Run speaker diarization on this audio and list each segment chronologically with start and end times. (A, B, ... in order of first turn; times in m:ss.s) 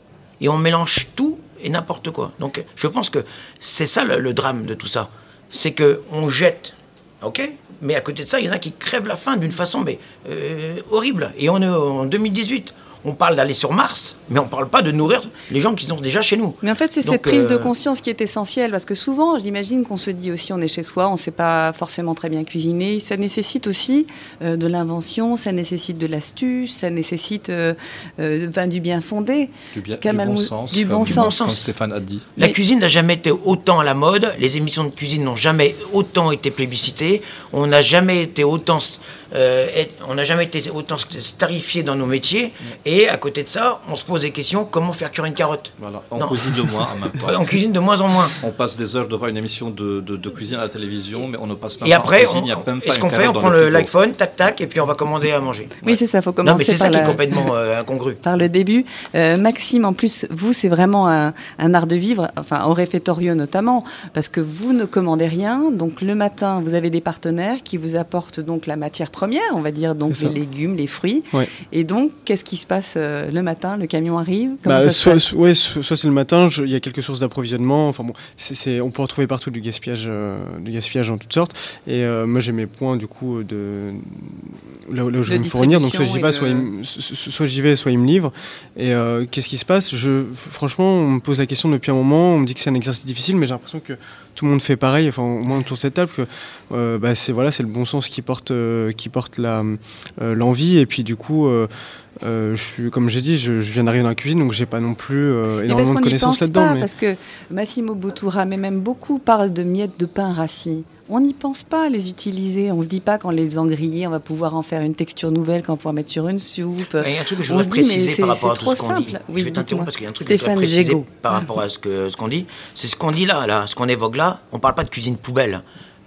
0:00.4-0:17.7 A
0:16.6-0:31.4 B
0:29.7-0:32.3 C
0:31.1-0:31.6 A
0:32.4-0:48.4 A
0:45.8-0:47.6 C
0:48.4-0:53.9 C
0:51.8-0:55.8 A
0:55.8-0:57.2 B
0:56.4-0:58.2 A
0:58.2-1:15.2 B
1:10.1-1:10.4 D
1:14.6-1:41.7 D
1:25.3-1:26.7 B
1:42.2-1:46.9 D
1:45.7-2:01.0 B
1:57.0-2:05.6 A